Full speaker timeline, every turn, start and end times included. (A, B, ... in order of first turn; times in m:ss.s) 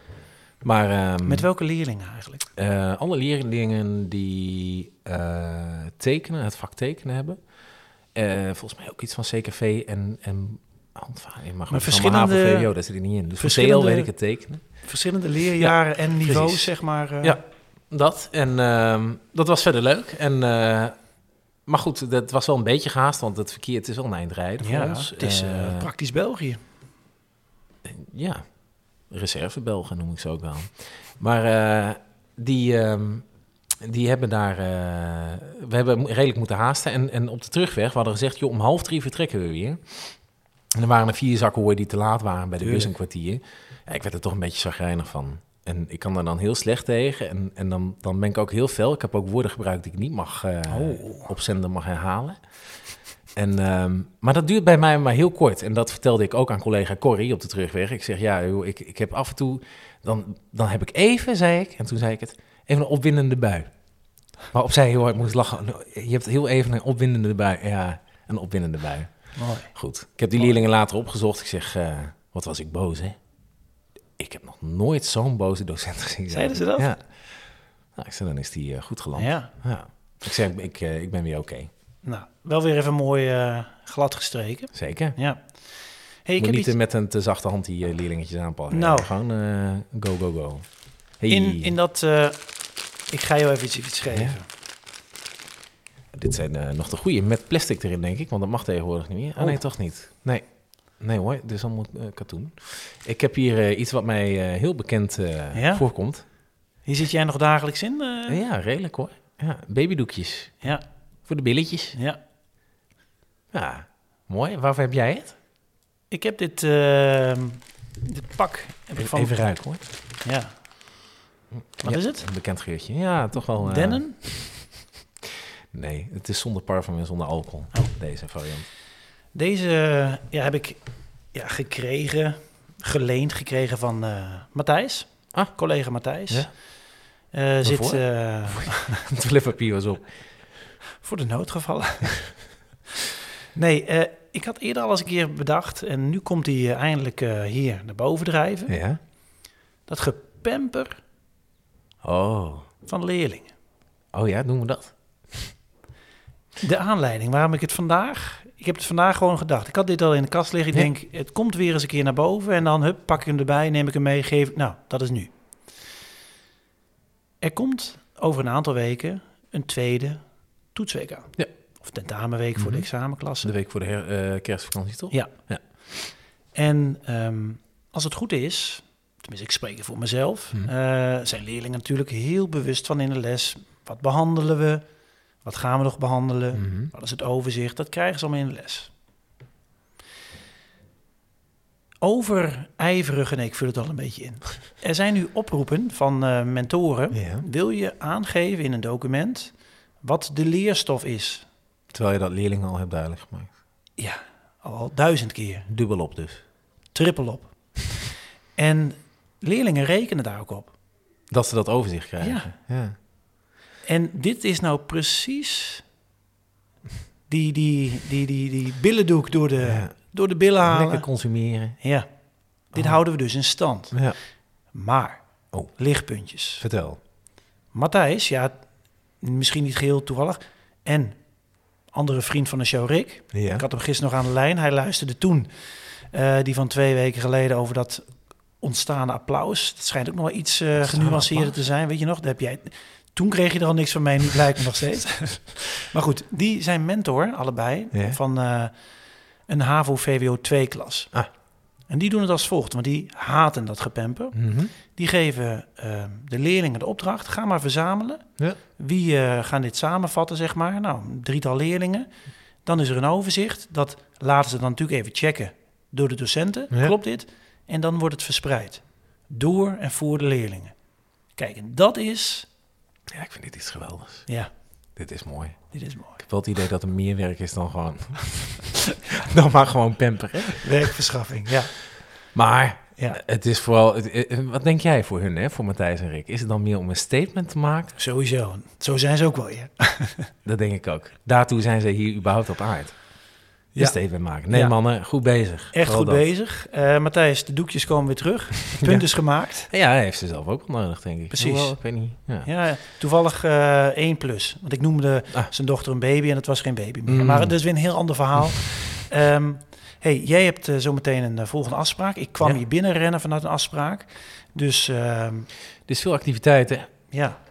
0:00.6-0:01.5 A
0:01.2-0:02.5 B
0:02.6-0:07.4 A
0:08.2-0:14.6 A
0:11.7-0:12.7 B
0:13.4-0:14.1 B
0:14.8-0:17.4 B
0:15.6-0:17.4 A
0:17.9-0:21.0 A
0:21.7-0:25.9 A
0:24.6-0:26.6 B
0:27.8-0:28.4 A
0:29.1-0:33.2 A
0:33.8-0:40.2 A
0:40.7-0:52.4 A
0:42.6-0:42.9 B
0:50.7-0:51.3 B
0:53.4-1:03.7 A
1:04.5-1:13.2 A
1:09.4-1:09.7 B
1:14.2-1:17.0 A
1:16.3-1:16.9 B
1:18.0-1:21.7 A
1:19.2-1:19.5 B
1:22.0-1:25.4 B
1:24.7-1:25.2 A
1:26.2-1:26.8 B
1:26.4-1:30.7 A
1:28.7-1:29.1 B
1:31.2-1:31.8 A
1:31.3-1:32.4 B
1:33.1-1:34.4 B
1:34.1-1:34.4 A
1:36.1-1:40.4 A
1:41.0-1:46.2 A
1:45.5-1:45.9 B
1:46.8-1:48.4 B
1:48.3-1:50.6 A
1:51.3-1:52.0 A
1:51.9-1:52.2 B
1:53.5-1:55.4 A
1:56.1-1:59.5 B
1:59.0-1:59.8 A
2:00.2-2:00.6 B
2:01.5-2:04.4 A
2:01.8-2:02.3 B
2:03.6-2:04.2 B
2:05.7-2:08.7 A
2:09.3-2:10.8 B
2:11.3-2:16.5 B
2:17.3-2:19.0 B
2:17.6-2:20.1 A
2:21.0-2:22.3 B
2:23.5-2:28.8 B
2:28.7-2:29.0 A
2:29.9-2:31.0 B
2:32.0-2:32.7 A
2:32.8-2:33.5 B
2:34.1-2:35.0 A
2:36.6-2:45.3 B
2:47.4-2:53.5 B
2:52.6-2:52.9 A
2:53.4-2:55.6 A
2:56.5-3:04.8 B
3:05.4-3:08.9 B
3:06.6-3:06.9 A
3:12.0-3:21.5 B
3:17.1-3:17.4 A
3:21.9-3:23.5 A
3:24.0-3:25.7 B
3:25.7-3:26.4 A
3:26.9-3:27.5 B
3:28.6-3:30.7 B
3:31.3-3:33.0 A
3:32.2-3:32.5 B
3:33.9-3:35.8 B
3:37.3-3:41.1 B
3:39.6-3:40.0 A
3:40.6-3:41.8 A
3:41.8-3:42.1 B
3:42.7-3:44.0 B
3:43.9-3:44.2 A
3:44.7-3:46.6 B
3:46.6-3:47.0 A
3:47.7-3:48.6 B
3:49.2-3:51.2 B
3:51.9-4:08.7 B
3:53.3-3:53.6 A
4:00.8-4:01.6 A
4:07.9-4:08.2 A
4:09.5-4:11.1 B
4:11.9-4:22.1 B
4:14.4-4:14.7 A
4:22.6-4:30.7 B
4:31.4-4:32.5 B
4:33.1-4:34.3 A
4:35.0-4:35.6 A
4:35.7-4:36.2 B
4:36.2-4:40.9 A
4:40.6-4:41.8 B
4:42.4-4:48.0 A
4:48.0-4:50.3 B
4:50.4-4:53.0 A
4:53.8-4:54.8 B
4:53.8-4:56.3 A
4:55.7-4:59.7 B
4:58.8-4:59.1 A
4:59.7-5:02.5 A
5:01.3-5:15.5 B
5:07.1-5:07.6 A
5:15.9-5:16.9 A
5:17.1-5:17.4 B